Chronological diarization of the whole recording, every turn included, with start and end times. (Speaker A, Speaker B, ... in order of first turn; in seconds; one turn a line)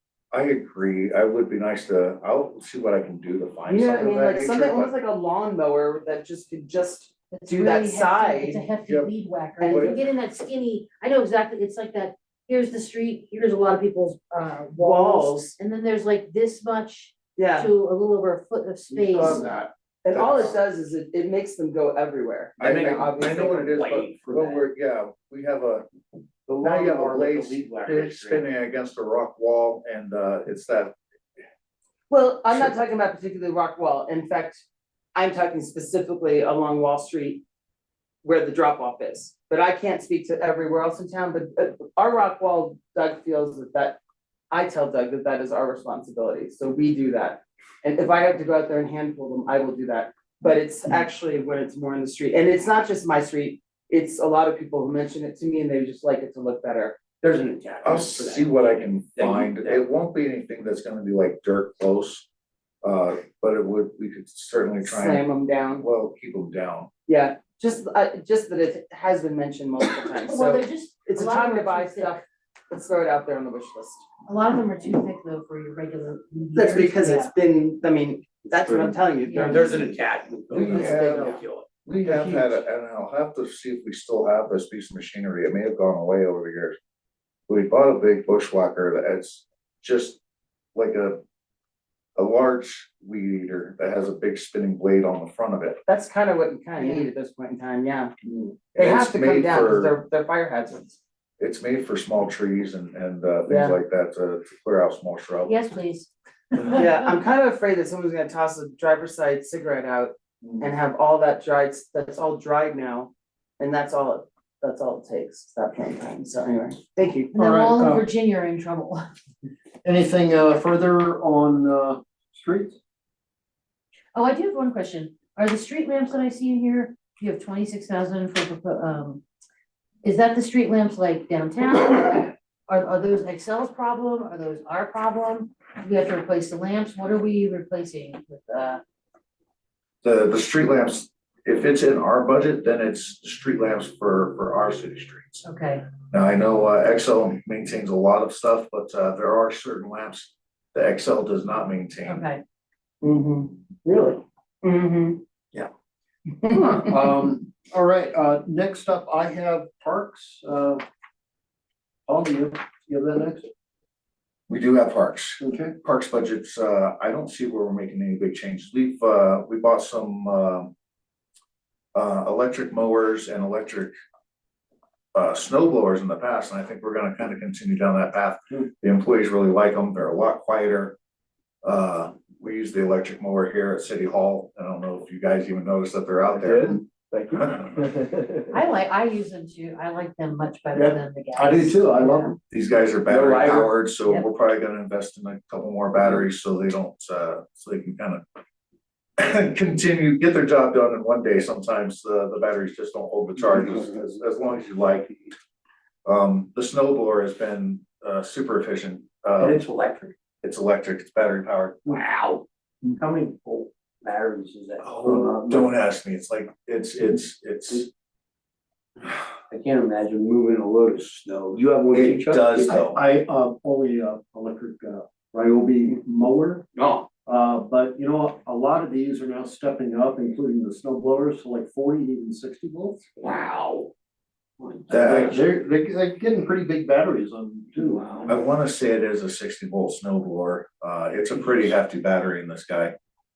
Speaker A: 0.3-4.9
Speaker B: 3.7-8.6
Speaker C: 7.3-19.6
Speaker A: 8.8-9.1
Speaker B: 9.6-10.0
Speaker A: 9.7-9.9
Speaker B: 14.8-15.6
Speaker B: 17.4-17.7
Speaker A: 18.9-20.6
Speaker B: 20.0-23.7
Speaker D: 22.6-24.6
Speaker A: 22.6-25.9
Speaker A: 26.5-30.9
Speaker D: 26.6-28.4
Speaker B: 32.1-34.6
Speaker B: 35.1-37.4
Speaker B: 38.2-44.0
Speaker B: 44.5-57.0
Speaker D: 57.2-59.8
Speaker A: 57.8-62.3
Speaker A: 62.8-65.2
Speaker B: 64.8-65.8
Speaker A: 65.8-66.9
Speaker B: 67.1-74.0
Speaker C: 70.2-72.2
Speaker C: 74.3-77.3
Speaker B: 76.5-79.9
Speaker D: 78.6-82.5
Speaker C: 79.2-79.8
Speaker A: 80.5-86.8
Speaker B: 80.5-81.4
Speaker A: 87.5-90.2
Speaker A: 90.7-91.2
Speaker A: 92.2-95.8
Speaker B: 95.9-98.1
Speaker C: 96.8-97.0
Speaker A: 98.3-100.0
Speaker B: 98.7-101.0
Speaker A: 101.4-105.5
Speaker B: 103.5-103.8
Speaker C: 105.5-107.0
Speaker B: 106.7-117.3
Speaker C: 117.3-119.0
Speaker E: 117.3-118.0
Speaker E: 119.8-122.8
Speaker C: 124.1-129.2
Speaker C: 130.0-138.8
Speaker A: 140.0-145.4
Speaker C: 145.4-145.8
Speaker A: 146.0-152.2
Speaker C: 152.1-152.4
Speaker B: 153.0-153.6
Speaker D: 153.8-154.2
Speaker B: 154.6-155.2
Speaker B: 156.4-156.9
Speaker E: 156.5-160.8
Speaker E: 162.1-163.5
Speaker A: 164.5-170.7
Speaker E: 165.4-165.7
Speaker A: 171.9-173.9
Speaker A: 175.1-180.9
Speaker A: 181.6-186.8
Speaker D: 186.3-188.5
Speaker A: 187.3-187.8
Speaker C: 188.5-192.3
Speaker E: 190.7-192.4
Speaker A: 192.5-198.2
Speaker D: 193.1-193.7
Speaker A: 199.2-205.3
Speaker A: 206.0-209.6
Speaker D: 209.4-210.1
Speaker A: 210.4-212.0
Speaker D: 211.9-215.7
Speaker A: 214.8-217.9
Speaker D: 219.5-222.9
Speaker A: 221.9-223.0
Speaker E: 222.9-226.6
Speaker D: 226.7-227.1
Speaker E: 227.2-233.0
Speaker D: 233.2-233.9
Speaker D: 234.6-235.4
Speaker A: 234.9-235.4
Speaker E: 234.9-238.4
Speaker D: 237.8-238.3
Speaker A: 238.3-242.9